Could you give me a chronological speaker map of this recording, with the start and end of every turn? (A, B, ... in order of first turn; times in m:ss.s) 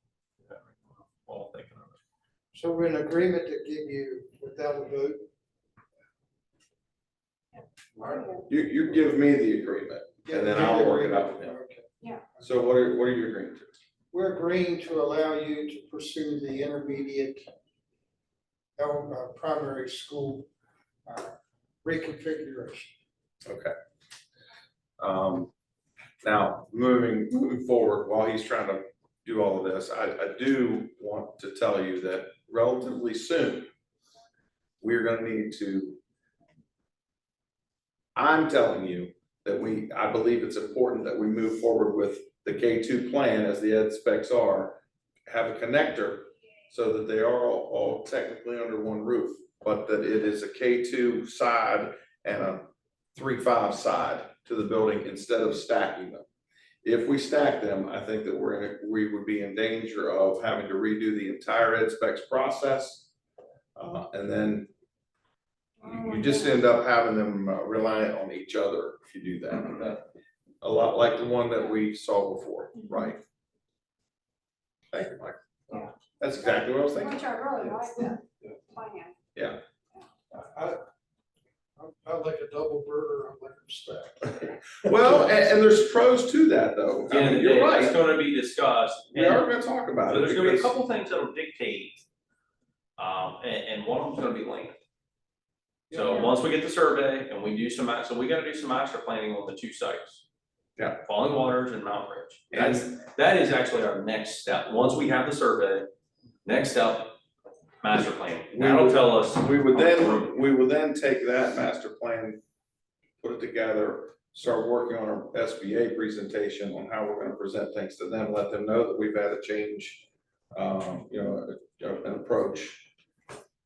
0:00.4-0:02.0 A
0:02.5-0:05.3 B
0:07.6-0:08.5 C
0:08.5-0:11.6 D
0:10.3-0:11.9 B
0:12.4-0:13.7 D
0:14.1-0:17.5 B
0:18.8-0:20.5 B
0:21.1-0:22.9 B
0:23.4-0:23.7 D
0:25.0-0:25.5 D
0:26.2-0:33.7 D
0:34.8-0:36.0 D
0:38.2-0:56.3 D
0:56.8-1:03.1 D
1:03.8-1:04.7 D
1:05.8-1:06.6 C
1:05.8-1:10.0 D
1:10.6-1:13.2 D
1:14.9-1:15.4 D
1:15.7-1:19.2 C
1:16.2-1:17.3 D
1:20.3-1:20.8 B
1:21.8-1:25.1 B
1:24.8-1:28.0 D
1:27.1-1:29.5 A
1:29.1-1:30.8 D
1:30.1-1:32.0 A
1:33.0-1:34.8 A
1:35.9-1:40.2 A
1:41.0-1:45.9 A
1:42.5-1:42.9 D
1:46.5-1:47.2 A
1:47.8-1:50.4 A
1:48.6-1:52.4 D
1:53.2-2:00.0 D
2:00.6-2:02.9 D